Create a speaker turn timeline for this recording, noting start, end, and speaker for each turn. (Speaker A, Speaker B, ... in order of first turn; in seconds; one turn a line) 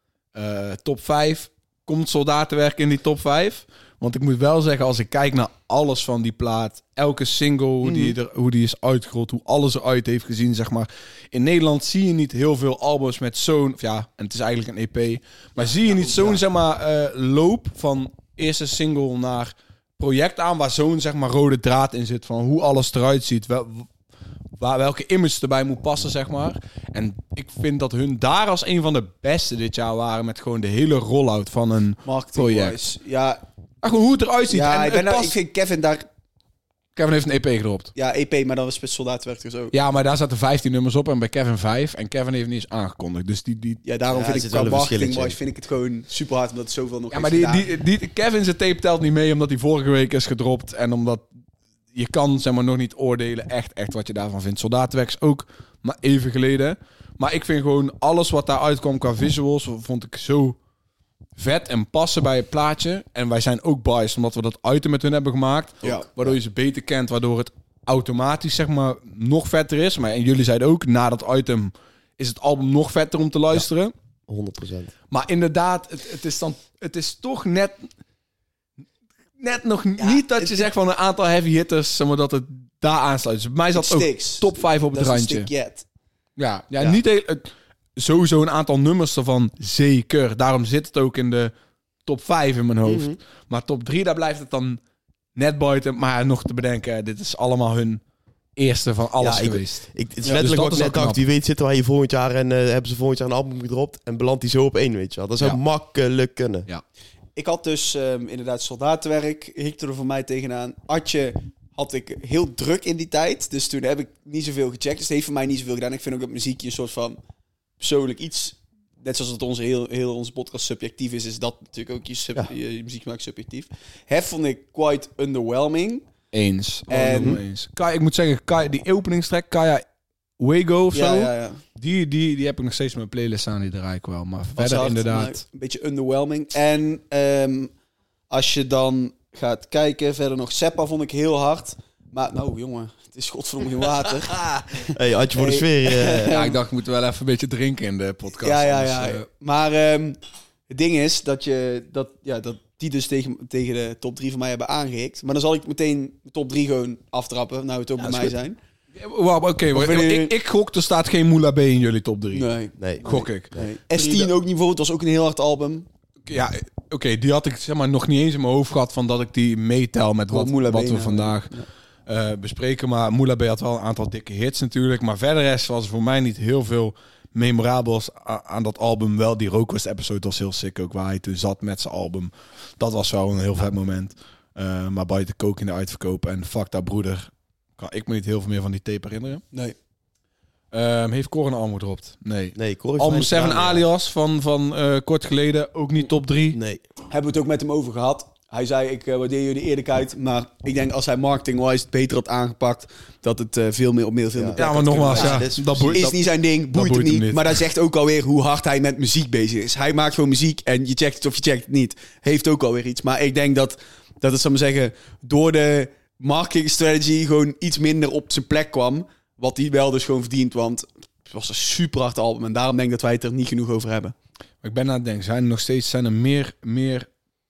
Speaker A: 0.3-23.9
Speaker B: 15.6-16.4
Speaker A: 24.6-32.8
Speaker B: 32.0-33.4
Speaker A: 33.8-35.4
Speaker B: 34.5-36.1
Speaker A: 36.9-37.9
Speaker B: 37.9-39.7
Speaker A: 39.7-43.8
Speaker B: 43.8-47.7
Speaker C: 44.1-45.4
Speaker A: 47.1-51.2
Speaker A: 51.9-60.6
Speaker A: 61.4-73.9
Speaker C: 74.3-74.9
Speaker A: 75.1-77.9
Speaker A: 79.4-85.5
Speaker B: 80.0-80.7
Speaker B: 83.7-85.8
Speaker A: 86.4-91.5
Speaker A: 92.0-94.8
Speaker C: 92.8-93.2
Speaker A: 95.3-98.0
Speaker A: 98.6-101.2
Speaker C: 99.2-106.7
Speaker B: 107.3-117.2
Speaker B: 117.8-126.0
Speaker A: 126.3-129.8
Speaker B: 126.9-127.4
Speaker A: 130.4-135.4
Speaker B: 130.9-131.6
Speaker B: 134.6-137.7
Speaker B: 138.3-146.6
Speaker C: 144.3-146.4
Speaker A: 146.2-149.2
Speaker B: 148.4-150.2
Speaker B: 150.7-158.6
Speaker A: 158.0-158.3
Speaker A: 158.9-162.5
Speaker B: 159.7-160.3
Speaker B: 162.3-165.9
Speaker C: 162.8-163.7
Speaker A: 163.0-164.3
Speaker A: 166.3-171.5
Speaker B: 170.3-171.7
Speaker A: 172.1-189.4
Speaker A: 190.7-196.6
Speaker C: 192.5-193.8
Speaker C: 196.5-196.8
Speaker B: 197.1-224.1
Speaker C: 204.3-206.0
Speaker A: 204.6-207.6
Speaker A: 224.6-227.1